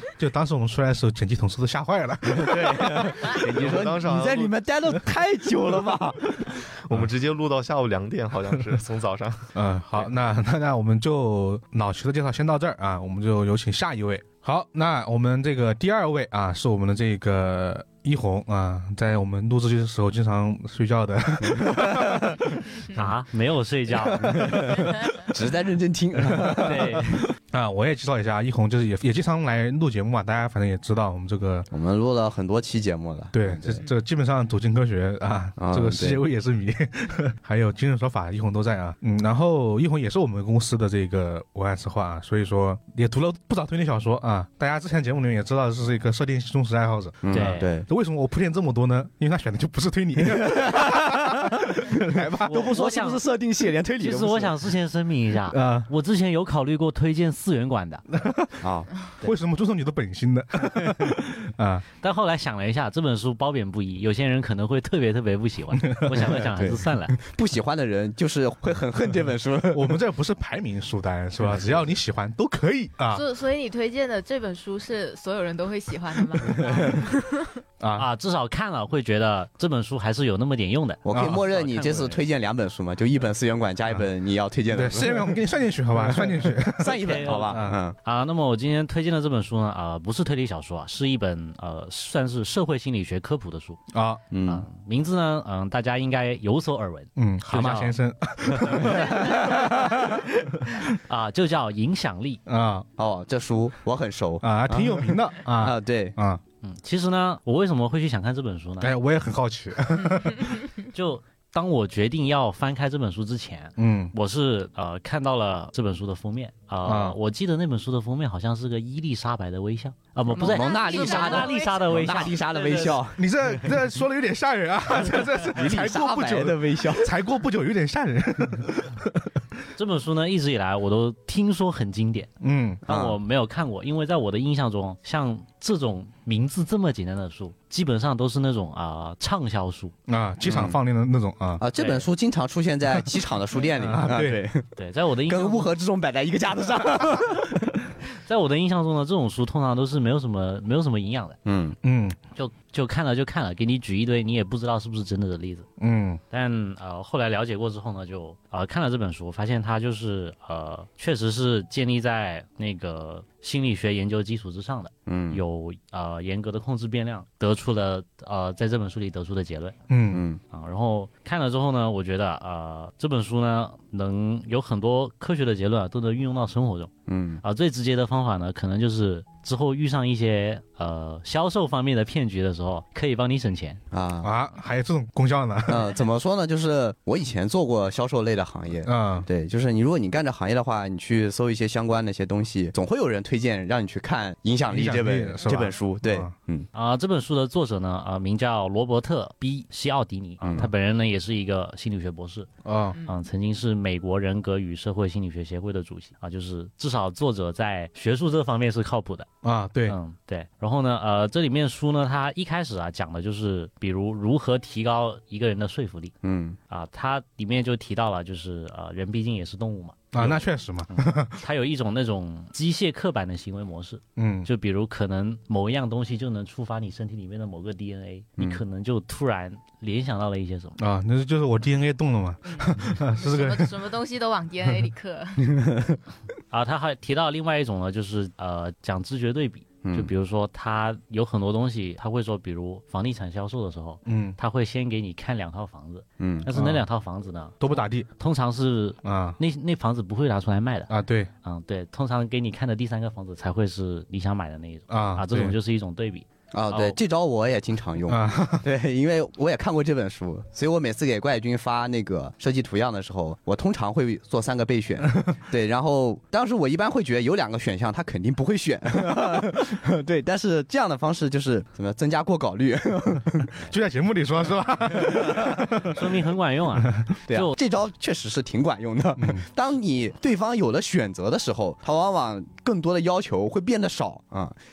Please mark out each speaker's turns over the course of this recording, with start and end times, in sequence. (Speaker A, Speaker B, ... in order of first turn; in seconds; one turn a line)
Speaker A: 0.2-3.3
Speaker B: 2.4-6.4
Speaker C: 3.4-4.5
Speaker C: 6.9-10.1
Speaker A: 9.6-23.0
Speaker B: 21.5-22.4
Speaker D: 22.9-24.8
Speaker B: 24.1-27.0
Speaker D: 26.6-27.2
Speaker A: 27.5-31.7
Speaker B: 31.7-33.9
Speaker A: 33.3-52.7
Speaker B: 35.6-36.2
Speaker B: 47.2-47.9
Speaker D: 47.3-47.7
Speaker B: 50.3-54.6
Speaker D: 52.5-53.2
Speaker D: 54.0-58.0
Speaker A: 55.5-55.9
Speaker A: 58.2-58.6
Speaker B: 58.6-58.9
Speaker A: 59.2-61.9
Speaker D: 62.0-67.2
Speaker B: 66.4-70.0
Speaker A: 69.7-73.2
Speaker B: 71.4-71.8
Speaker E: 73.1-77.5
Speaker A: 77.8-78.1
Speaker D: 78.0-82.2
Speaker B: 81.0-85.4
Speaker A: 81.1-81.4
Speaker A: 84.7-87.8
Speaker B: 85.9-88.0
Speaker D: 86.9-93.8
Speaker A: 93.9-94.2
Speaker B: 94.3-94.7
Speaker D: 94.5-98.0
Speaker A: 97.2-100.8
Speaker B: 98.7-100.0
Speaker D: 101.1-102.4
Speaker A: 102.5-102.9
Speaker B: 103.0-106.2
Speaker A: 104.4-106.4
Speaker D: 106.6-108.9
Speaker A: 108.8-110.6
Speaker D: 110.9-123.0
Speaker A: 113.8-114.1
Speaker A: 116.8-117.2
Speaker B: 120.3-123.2
Speaker E: 120.4-121.8
Speaker A: 123.1-129.1
Speaker B: 125.0-127.1
Speaker D: 129.8-132.3
Speaker A: 132.4-132.8
Speaker B: 132.9-133.2
Speaker D: 132.9-139.9
Speaker A: 140.1-141.6
Speaker B: 140.4-140.8
Speaker B: 141.6-144.7
Speaker D: 141.8-142.1
Speaker A: 143.8-144.4
Speaker D: 144.8-145.7
Speaker B: 145.3-147.7
Speaker D: 148.2-151.4
Speaker B: 151.4-151.8
Speaker A: 151.8-152.2
Speaker D: 152.3-155.7
Speaker A: 155.8-156.2
Speaker D: 156.3-169.8
Speaker B: 165.1-165.4
Speaker A: 169.9-170.2
Speaker B: 170.1-170.4
Speaker D: 170.5-176.9
Speaker B: 177.1-177.4
Speaker D: 177.4-183.8
Speaker B: 183.9-184.3
Speaker A: 184.2-185.9
Speaker B: 185.7-196.7
Speaker A: 188.8-189.3
Speaker A: 194.7-196.3
Speaker D: 196.7-202.5
Speaker B: 200.4-200.7
Speaker A: 202.7-203.0
Speaker D: 203.0-209.3
Speaker A: 209.4-210.0
Speaker D: 209.9-216.2
Speaker B: 216.2-216.6
Speaker D: 216.7-230.8
Speaker A: 220.1-221.4
Speaker A: 224.2-224.5
Speaker A: 230.8-233.7
Speaker E: 232.5-235.6
Speaker D: 236.5-250.9
Speaker B: 239.8-240.1
Speaker A: 244.1-244.4
Speaker B: 246.2-246.5
Speaker A: 246.5-246.8
Speaker A: 247.6-248.1
Speaker A: 249.0-249.4
Speaker A: 250.9-251.3
Speaker D: 251.4-257.0
Speaker A: 254.9-255.6
Speaker B: 256.5-273.5
Speaker A: 258.1-258.6
Speaker A: 273.6-276.0
Speaker D: 275.9-277.6
Speaker B: 277.3-284.6
Speaker A: 279.2-279.4